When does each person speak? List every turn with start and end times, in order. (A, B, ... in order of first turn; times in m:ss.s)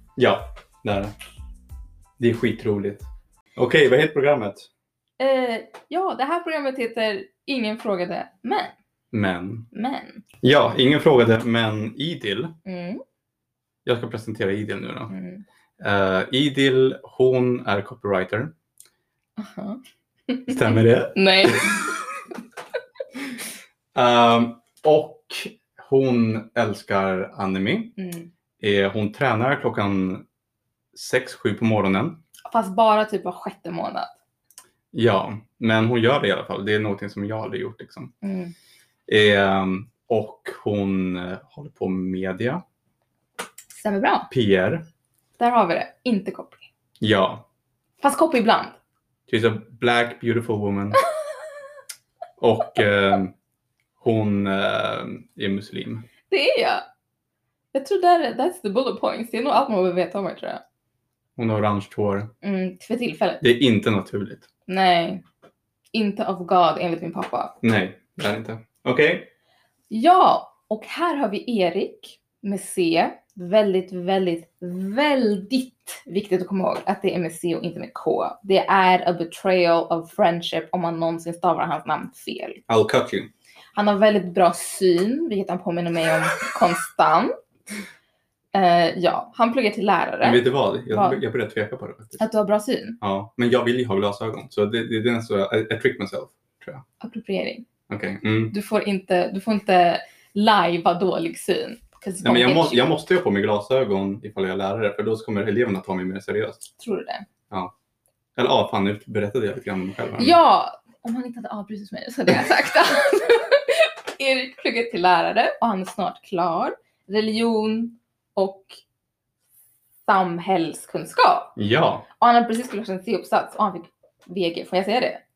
0:00.2-0:01.1 A
0:02.2-0:04.7 A
0:05.2-0:08.7 B
0:09.1-0:09.7 A
0:09.7-0:10.2 B
0:10.4-0:12.6 A
0:12.6-0:13.0 B
0:13.8-0:15.1 A
0:15.1-0:15.4 B
0:15.8-0:18.5 A
0:19.4-0:22.0 B
0:20.5-0:21.7 A
0:23.9-0:27.9 A
0:28.0-0:28.3 B
0:28.6-0:30.2 A
0:30.9-0:32.2 A
0:32.5-0:34.1 B
0:34.9-0:38.1 A
0:38.2-0:38.5 B
0:39.1-0:42.6 A
0:43.8-0:44.3 B
0:44.3-0:44.8 A
0:45.4-0:46.6 B
0:47.0-0:47.4 A
0:48.0-0:48.8 B
0:49.3-0:51.0 A
0:52.4-0:53.3 A
0:54.0-0:56.0 A
0:56.3-0:56.8 B
0:57.7-1:00.6 B
1:01.4-1:02.3 A
1:02.4-1:03.4 B
1:03.4-1:04.4 A
1:04.7-1:05.2 B
1:05.9-1:07.5 B
1:07.6-1:09.3 A
1:09.9-1:22.6 B
1:22.7-1:23.3 A
1:23.8-1:27.3 B
1:28.5-1:31.2 B
1:30.2-1:32.2 A
1:32.2-1:33.0 B
1:33.0-1:36.8 A
1:37.0-1:37.6 B
1:37.9-1:38.5 A
1:38.5-1:42.9 B
1:42.2-1:46.6 A
1:46.8-1:47.2 B
1:48.4-1:50.4 A
1:50.2-1:58.8 B
2:00.1-2:01.5 B
2:01.6-2:02.0 A
2:02.2-2:05.2 B